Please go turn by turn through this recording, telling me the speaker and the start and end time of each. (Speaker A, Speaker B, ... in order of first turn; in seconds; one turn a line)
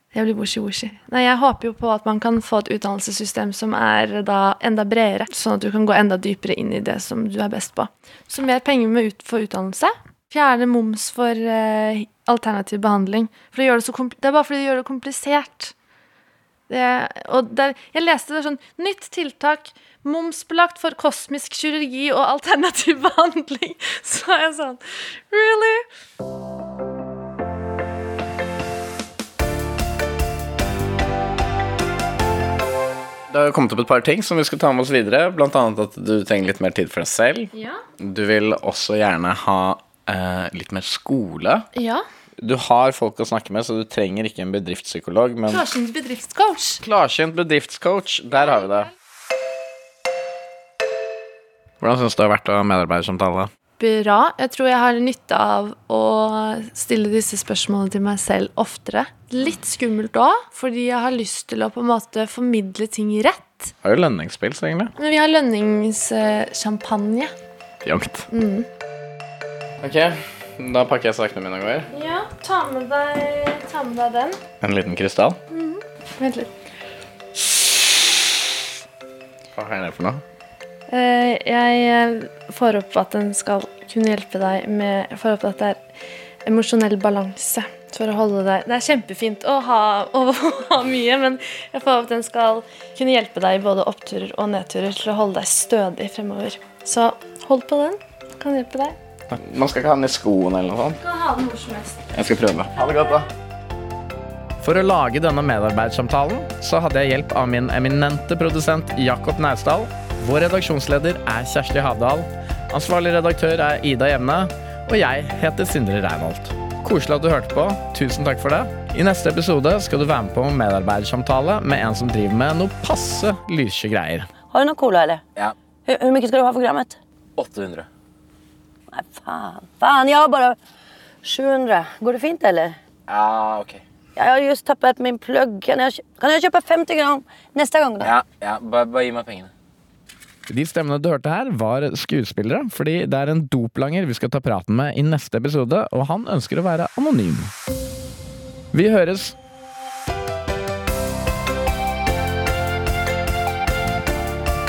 Speaker A: 0.1-15.7
Speaker A: 16.7-25.8
Speaker B: 33.3-41.7
Speaker A: 37.5-37.8
Speaker A: 41.7-42.0
Speaker B: 42.4-45.6
Speaker A: 45.5-46.8
Speaker B: 46.8-48.9
Speaker B: 51.8-53.5
Speaker A: 53.8-63.7
Speaker B: 63.8-64.9
Speaker A: 65.0-67.3
Speaker B: 67.8-68.3
Speaker A: 68.3-68.7
Speaker B: 69.8-71.9
Speaker A: 71.9-74.4
Speaker B: 74.6-75.4
Speaker A: 75.5-76.5
Speaker B: 77.5-78.0
Speaker B: 79.5-80.2
Speaker A: 80.9-85.8
Speaker A: 86.4-99.0
Speaker B: 99.3-101.0
Speaker A: 101.0-102.0
Speaker B: 102.1-103.3
Speaker B: 104.6-124.3
Speaker C: 124.5-125.2
Speaker C: 125.8-127.0
Speaker D: 127.4-127.9
Speaker C: 128.9-130.6
Speaker C: 131.2-132.8
Speaker D: 133.1-133.8
Speaker C: 134.2-138.2
Speaker D: 138.0-139.5
Speaker B: 140.5-147.5
Speaker B: 148.7-149.3